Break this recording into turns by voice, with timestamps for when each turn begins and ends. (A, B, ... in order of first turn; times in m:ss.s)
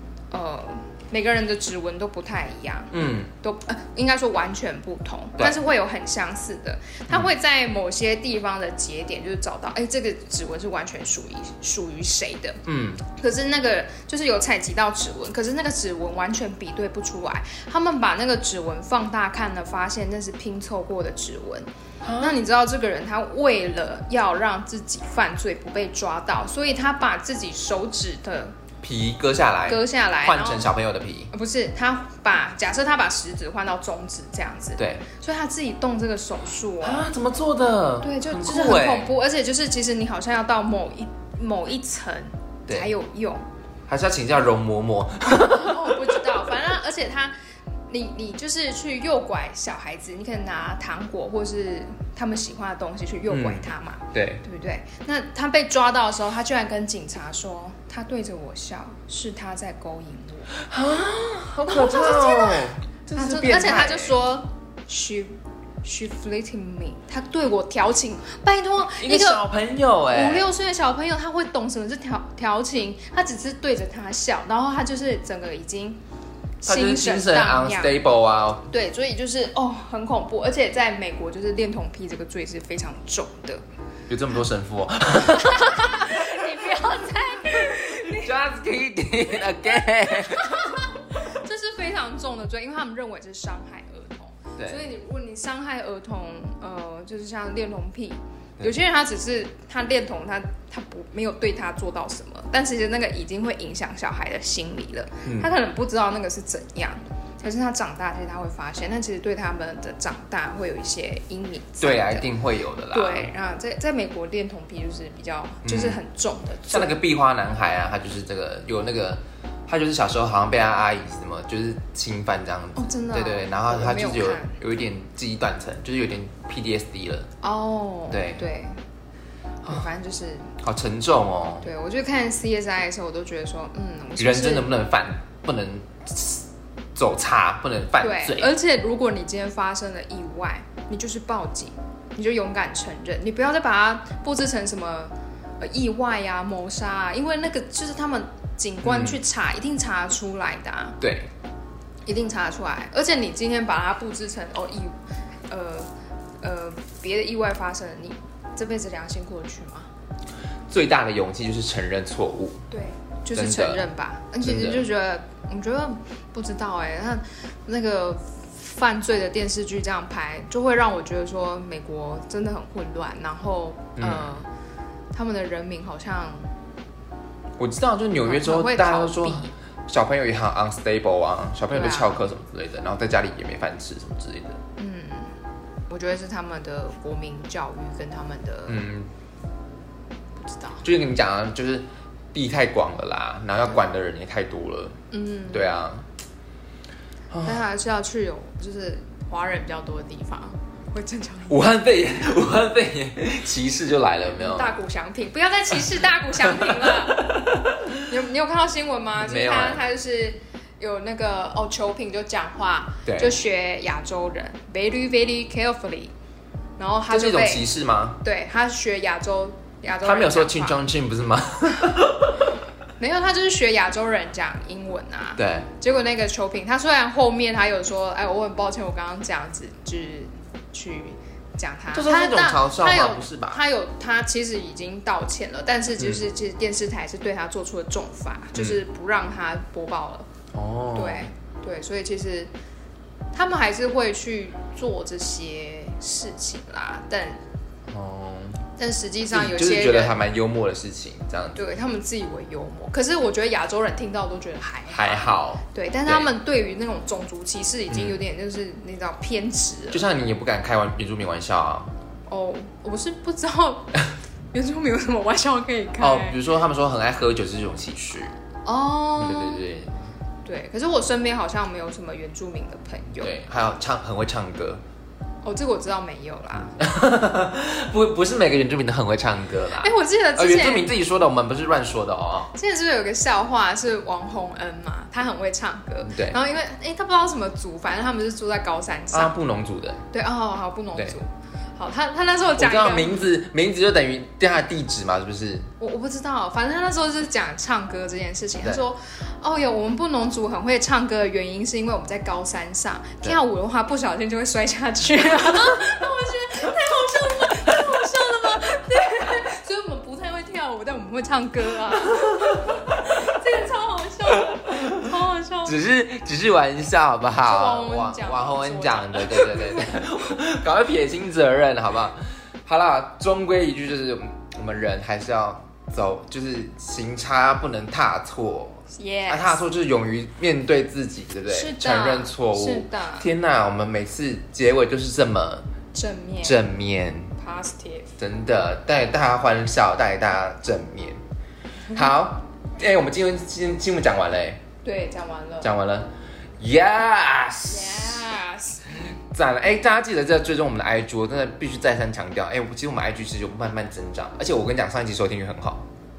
0:00.3-0:28.6 A
0:02.9-0:03.3 B
0:05.4-0:05.7 B
0:12.7-0:13.0 B
0:22.0-0:22.4 B
0:28.8-0:31.3 B
0:29.7-0:30.7 A
0:31.3-0:37.1 A
0:34.8-0:35.0 B
0:36.8-0:39.1 B
0:38.0-0:43.5 A
0:43.9-0:46.3 B
0:45.4-0:47.4 A
0:47.9-1:00.5 A
0:53.3-0:54.4 B
1:00.5-1:04.2 B
1:01.7-1:09.5 A
1:09.0-1:10.5 B
1:10.1-1:16.0 A
1:16.6-1:18.0 A
1:16.6-1:18.7 B
1:18.7-1:23.6 A
1:24.1-1:26.4 B
1:25.2-1:28.4 A
1:28.0-1:30.7 B
1:30.1-1:52.3 A
1:34.6-1:34.8 B
1:45.2-1:45.5 B
1:51.8-1:53.3 B
1:52.9-1:57.0 A
1:55.6-1:56.0 B
1:56.7-2:07.3 B
2:02.8-2:04.6 A
2:07.4-2:08.8 A
2:08.1-2:08.4 B
2:09.6-2:10.5 A
2:10.6-2:11.7 B
2:11.6-2:14.7 A
2:14.2-2:18.5 B
2:18.0-2:31.0 A
2:28.8-2:29.2 B
2:31.0-2:31.3 B
2:32.1-2:35.9 A
2:36.4-2:39.9 A
2:40.7-2:42.6 B
2:42.7-2:54.5 A
2:43.4-2:43.9 B
2:44.4-2:44.8 B
2:54.0-2:54.4 B
2:55.1-2:56.5 A
2:57.6-3:04.6 B
2:58.2-2:59.5 A
3:01.7-3:02.2 A
3:04.8-3:05.4 A
3:05.9-3:08.8 A
3:08.7-3:09.1 B
3:10.4-3:10.8 A
3:10.8-3:15.0 B
3:15.1-3:15.7 A
3:15.5-3:16.1 B
3:17.3-3:17.6 B
3:17.4-3:21.6 A
3:21.5-3:24.7 B
3:24.3-3:27.4 A
3:26.5-3:28.0 B
3:28.0-3:36.1 A
3:29.2-3:29.8 B
3:33.1-3:33.4 B
3:36.8-3:37.7 A
3:37.1-3:38.2 B
3:38.2-3:40.8 A
3:40.0-3:42.5 B
3:43.0-4:00.3 A
3:45.4-3:45.7 B
3:51.9-3:53.6 B
3:58.6-3:58.8 B
4:00.5-4:01.3 B
4:00.9-4:02.5 A
4:03.3-4:07.4 A
4:07.9-4:08.6 B
4:08.8-4:10.2 A
4:09.3-4:11.6 B
4:11.6-4:20.0 A
4:14.9-4:16.3 B
4:17.9-4:18.2 B
4:19.9-4:21.9 B
4:22.3-4:24.0 A
4:24.5-4:26.4 A
4:26.0-4:28.4 B
4:28.6-4:29.6 A
4:29.2-4:30.1 B
4:30.4-4:33.4 A
4:33.2-4:34.8 B
4:35.4-4:36.8 A
4:36.6-4:42.5 B
4:39.8-4:40.9 A
4:42.5-4:49.4 A
4:46.0-4:46.4 B
4:49.1-4:50.0 B
4:50.1-4:53.3 A
4:52.6-4:55.7 B
4:55.8-5:15.8 A
5:15.6-5:35.6 B
5:17.4-5:20.0 A
5:28.9-5:29.6 A
5:31.5-5:33.3 A
5:35.9-5:36.6 A
5:36.4-5:37.4 B
5:37.4-5:38.1 A
5:38.2-5:41.2 B
5:41.9-5:44.6 B
5:44.8-5:45.7 A
5:45.6-5:48.2 B
5:47.6-5:48.9 A
5:49.3-5:55.8 B